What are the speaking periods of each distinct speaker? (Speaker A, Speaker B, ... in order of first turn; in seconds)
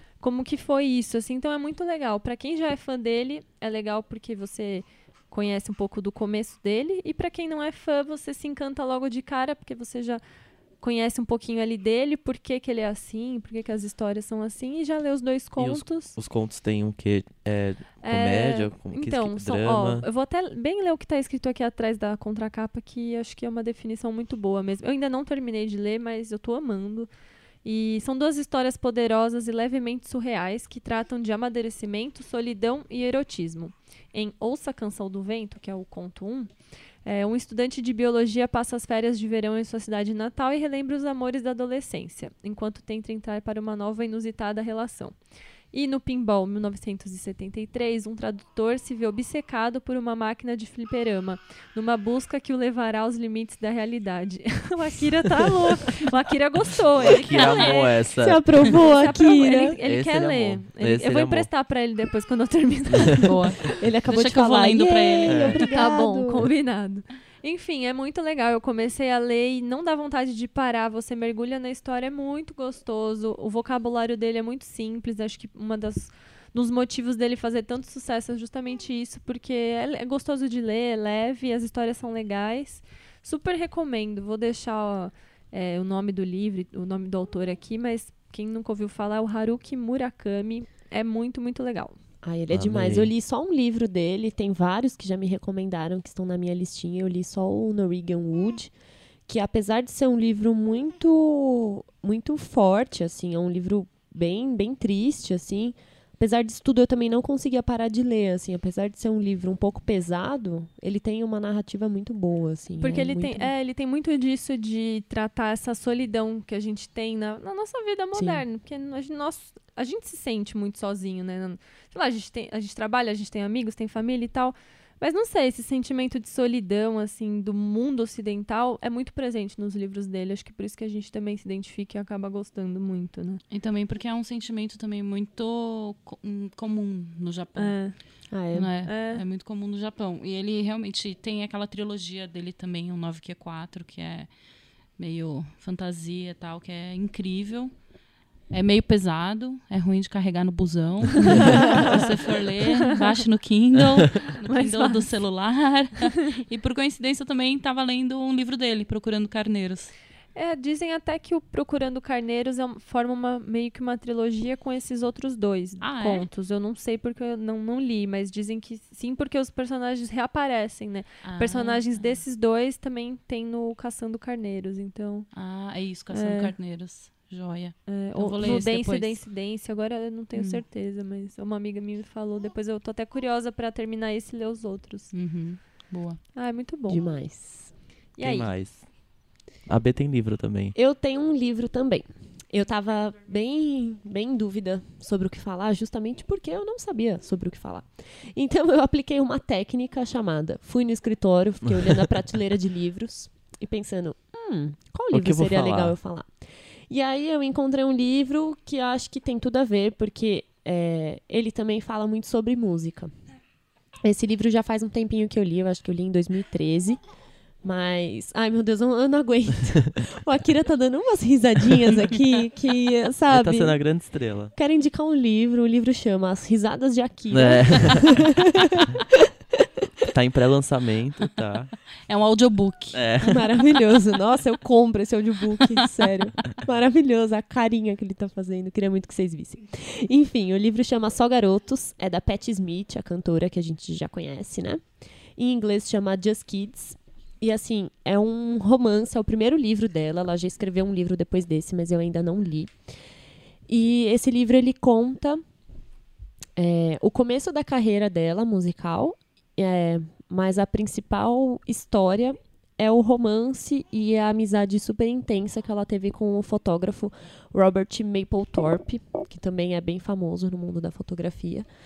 Speaker A: 0.2-10.2, 10.8-16.1, 18.0-27.1, 27.6-36.5, 37.0-45.1, 45.7-58.0, 58.7-63.3, 65.7-92.0, 112.8-133.4, 137.6-137.9, 138.8-139.2, 151.3-151.9, 154.4-155.1, 160.3-175.3, 176.1-176.5, 177.9-185.1, 186.3-187.0, 188.2-188.5
Speaker B: 15.6-20.1, 56.9-58.5, 59.8-61.5, 65.2-65.6, 92.5-93.1, 188.2-188.8, 189.7-190.7, 205.1-205.9, 223.3-224.5, 227.3-228.2, 230.1-231.7, 232.9-233.4
Speaker C: 57.4-57.7, 63.2-65.7, 133.5-137.8, 138.5-144.3, 145.0-147.7, 148.5-159.9, 165.8-166.3, 171.2-172.2, 175.3-179.2, 180.3-180.6, 185.1-186.2, 232.1-233.0
Speaker D: 58.2-59.8, 63.6-66.5, 92.2-98.7, 99.3-113.5, 118.1-118.4, 138.3-138.7, 186.9-187.7, 190.7-206.3, 206.9-213.1, 214.0-217.0, 217.6-223.8, 224.5-229.7, 233.2-244.8, 245.4-252.7, 253.7-255.4, 256.6-271.7